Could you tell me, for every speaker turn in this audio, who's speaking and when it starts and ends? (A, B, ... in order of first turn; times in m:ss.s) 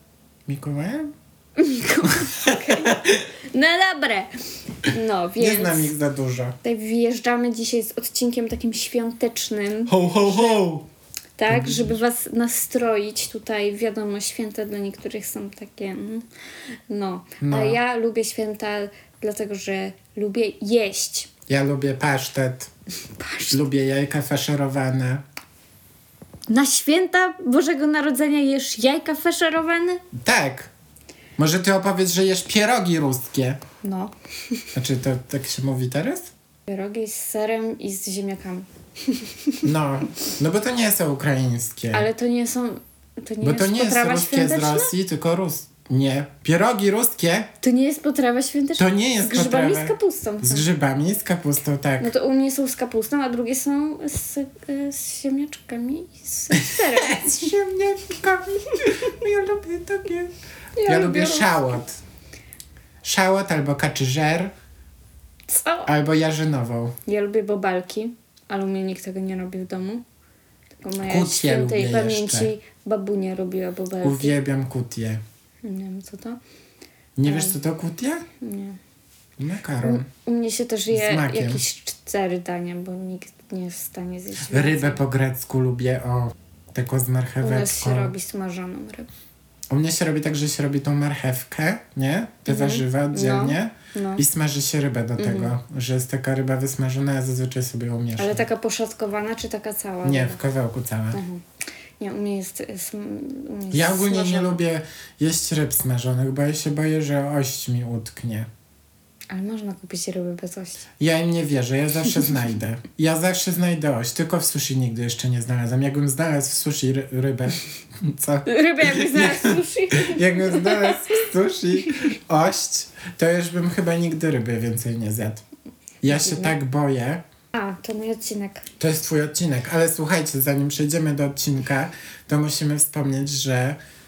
0:00.5-0:01.1 A
0:01.6-0:04.3 B
0:02.2-0:03.1 A
0:04.8-0:05.9 B
0:05.4-0:06.6 A
0:06.6-0:10.6 B
0:09.9-0:10.9 A
0:11.4-0:16.2 B
0:11.5-0:11.9 A
0:16.9-0:21.3 B
0:17.4-0:17.8 A
0:21.5-0:22.7 A
0:23.2-0:23.6 B
0:23.5-0:25.2 A
0:26.5-0:30.0 B
0:30.1-0:30.7 A
0:31.4-0:33.6 A
0:33.8-0:34.6 B
0:34.7-0:36.3 A
0:36.7-0:39.6 B
0:39.6-0:42.1 A
0:41.9-0:44.9 B
0:43.4-0:47.5 A
0:47.6-0:50.7 B
0:48.8-0:52.1 A
0:52.0-0:57.5 B
0:56.5-1:00.3 A
1:00.8-1:01.7 B
1:00.9-1:02.0 A
1:03.0-1:04.5 A
1:05.5-1:05.9 B
1:05.9-1:07.0 A
1:07.1-1:10.0 B
1:10.8-1:14.4 B
1:11.0-1:12.5 A
1:14.0-1:15.2 A
1:15.6-1:16.4 B
1:17.2-1:18.2 A
1:17.3-1:17.6 B
1:18.4-1:18.8 B
1:19.4-1:20.1 A
1:19.8-1:25.0 B
1:20.9-1:21.6 A
1:24.5-1:28.1 A
1:27.4-1:29.1 B
1:29.7-1:38.4 A
1:32.5-1:34.2 B
1:35.2-1:35.5 B
1:38.2-1:40.4 B
1:40.0-1:41.2 A
1:41.1-1:41.4 B
1:42.0-1:44.6 B
1:43.7-1:48.5 A
1:49.3-1:50.9 B
1:51.0-2:05.4 A
1:58.5-2:01.2 B
2:06.0-2:07.2 A
2:06.1-2:06.5 B
2:07.5-2:08.6 B
2:08.8-2:13.8 A